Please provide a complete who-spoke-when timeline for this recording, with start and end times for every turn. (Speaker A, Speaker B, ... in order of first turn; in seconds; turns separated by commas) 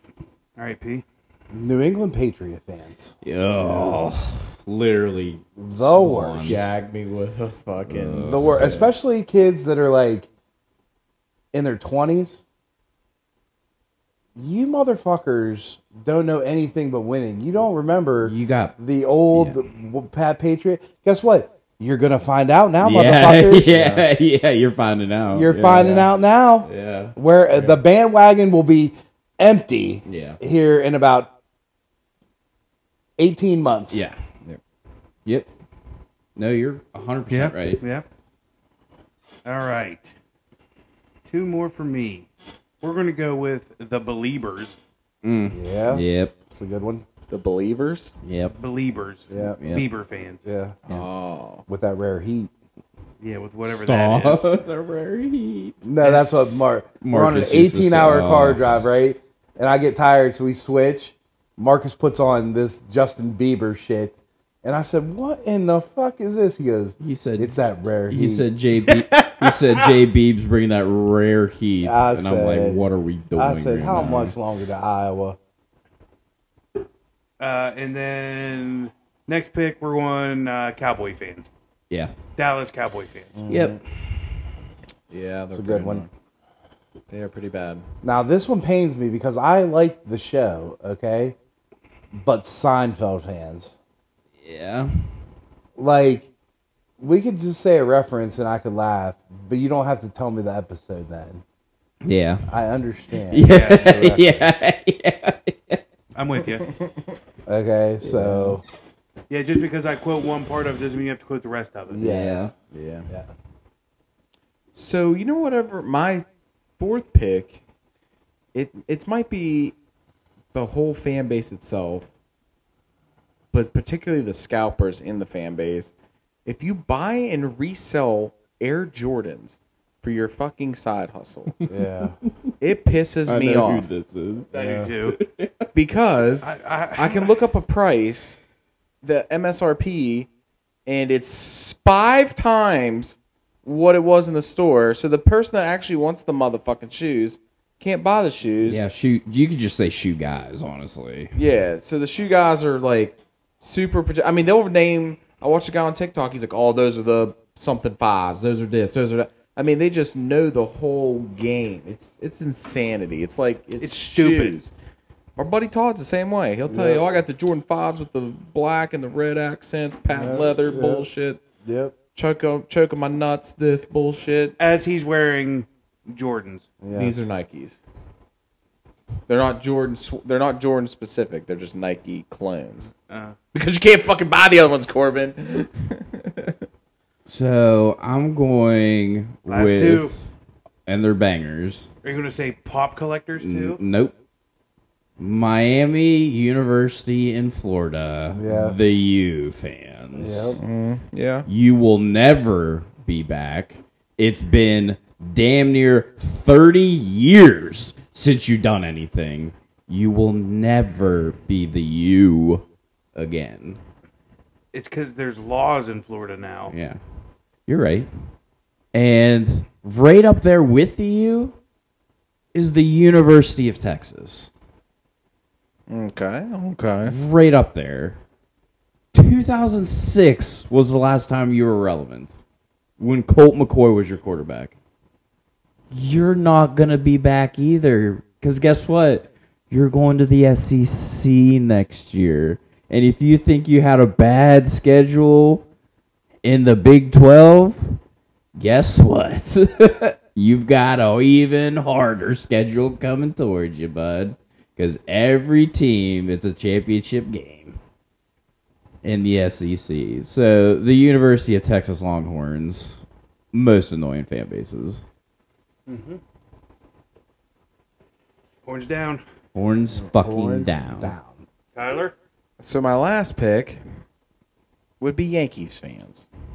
Speaker A: 0.6-1.0, Speaker B: 1.5-4.0, Speaker C: 3.2-6.7, Speaker B: 5.6-6.6, Speaker D: 6.4-8.9, Speaker C: 7.9-8.6, Speaker B: 8.2-10.3, Speaker B: 11.5-12.4, Speaker B: 14.3-24.1, Speaker C: 18.2-18.7, Speaker C: 19.3-19.6, Speaker C: 22.8-26.1, Speaker B: 25.3-31.3, Speaker C: 26.6-27.1, Speaker C: 30.1-30.4, Speaker B: 33.2-34.0, Speaker C: 33.9-34.2, Speaker C: 36.4-37.8, Speaker A: 37.3-38.0, Speaker A: 39.4-40.1, Speaker A: 41.2-42.3, Speaker A: 42.8-44.8, Speaker C: 45.2-46.3, Speaker B: 45.5-47.0, Speaker D: 47.3-48.1, Speaker C: 48.2-48.5, Speaker A: 48.5-50.4, Speaker B: 49.3-49.6, Speaker C: 49.4-49.9, Speaker B: 50.4-50.8, Speaker D: 50.9-51.6, Speaker B: 51.7-52.5, Speaker A: 53.2-54.5, Speaker C: 53.6-55.8, Speaker B: 55.8-68.5, Speaker A: 56.0-56.3, Speaker C: 57.0-58.6, Speaker C: 67.0-74.3, Speaker A: 68.9-69.8, Speaker B: 71.8-72.8, Speaker B: 73.3-75.4, Speaker A: 77.4-81.5, Speaker A: 82.4-83.4, Speaker B: 83.3-83.8, Speaker C: 83.5-83.8, Speaker D: 85.1-86.1, Speaker B: 85.5-86.0, Speaker D: 87.1-87.8, Speaker B: 88.0-91.3, Speaker B: 92.2-93.7, Speaker C: 94.4-94.9, Speaker B: 95.8-96.3, Speaker B: 97.0-101.4, Speaker C: 102.0-102.5, Speaker B: 102.5-104.7, Speaker C: 103.3-105.8, Speaker A: 103.5-104.0, Speaker A: 106.1-106.7, Speaker D: 106.6-107.1, Speaker B: 107.5-108.6, Speaker C: 108.0-108.6, Speaker A: 109.3-112.0, Speaker B: 111.9-112.4, Speaker C: 112.0-112.5, Speaker D: 112.7-113.1, Speaker D: 114.7-116.2, Speaker D: 116.8-117.6, Speaker D: 118.5-119.7, Speaker D: 120.5-122.1, Speaker D: 123.5-125.9, Speaker D: 126.4-131.5, Speaker B: 131.7-132.2, Speaker D: 132.6-133.9, Speaker C: 133.2-135.7, Speaker A: 134.5-135.2, Speaker B: 134.5-134.9, Speaker D: 135.7-138.4, Speaker A: 136.4-137.3, Speaker D: 139.0-140.3, Speaker D: 140.8-148.8, Speaker C: 148.6-151.3, Speaker D: 151.3-164.7, Speaker A: 163.8-164.6, Speaker D: 165.3-171.4, Speaker B: 166.7-167.1, Speaker B: 170.1-171.1, Speaker B: 171.6-171.9, Speaker D: 172.1-174.6, Speaker A: 174.6-176.7, Speaker B: 176.8-177.2, Speaker D: 176.9-177.8, Speaker D: 179.3-182.9, Speaker A: 183.1-183.3, Speaker D: 183.5-186.6, Speaker C: 187.3-190.3, Speaker A: 189.5-190.1, Speaker C: 190.8-191.9, Speaker A: 192.0-193.8, Speaker C: 193.4-194.1, Speaker C: 195.2-200.6, Speaker B: 198.3-198.8, Speaker B: 200.2-200.6, Speaker D: 200.6-201.5, Speaker C: 201.5-213.8, Speaker A: 214.7-216.7, Speaker C: 216.7-217.0, Speaker C: 217.7-218.1, Speaker C: 218.9-221.6, Speaker C: 222.5-224.5, Speaker D: 225.9-227.1, Speaker C: 227.1-228.2, Speaker C: 229.1-232.3, Speaker C: 233.0-234.7, Speaker C: 235.9-245.7, Speaker C: 246.4-248.0, Speaker C: 248.6-257.8, Speaker C: 259.0-265.0, Speaker A: 265.9-266.2, Speaker A: 268.6-269.2, Speaker C: 269.5-271.1, Speaker B: 269.9-271.4, Speaker A: 271.7-272.1, Speaker D: 272.6-273.8, Speaker D: 275.0-276.3